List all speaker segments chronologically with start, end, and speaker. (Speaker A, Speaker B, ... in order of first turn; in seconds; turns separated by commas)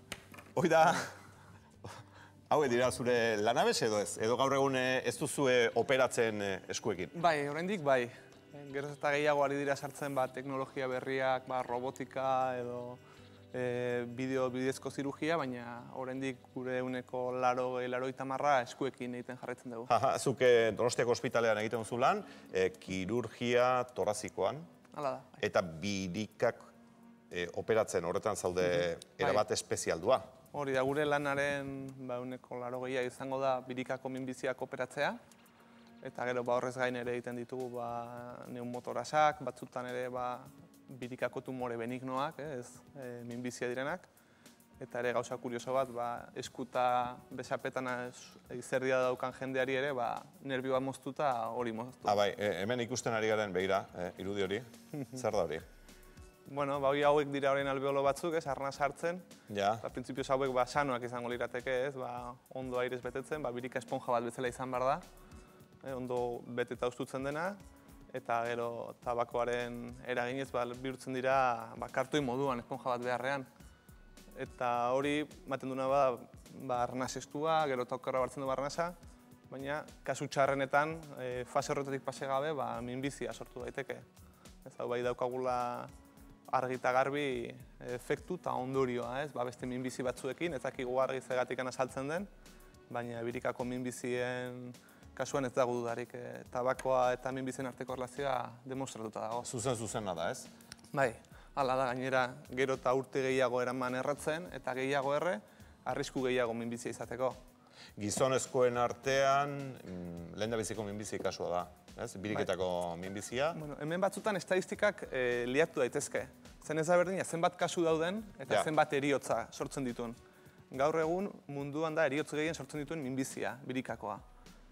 Speaker A: 0.6-1.1, Speaker A: 2.5-7.2, Speaker B: 7.1-13.0, Speaker B: 13.5-19.9, Speaker A: 19.9-24.7, Speaker B: 24.9-25.4, Speaker A: 25.4-26.7, Speaker A: 27.3-30.3, Speaker B: 30.5-35.2, Speaker B: 36.0-44.1, Speaker B: 44.8-52.2, Speaker A: 52.0-55.6, Speaker B: 56.5-59.2, Speaker A: 59.5-59.8, Speaker B: 59.8-65.0, Speaker B: 65.8-67.6, Speaker B: 68.1-73.5, Speaker B: 74.4-79.0, Speaker B: 79.5-84.1, Speaker B: 84.7-85.9, Speaker B: 86.5-92.3, Speaker B: 92.9-99.5, Speaker A: 99.4-100.5, Speaker B: 100.9-107.4, Speaker A: 108.0-113.6, Speaker B: 113.5-120.2, Speaker B: 120.7-124.2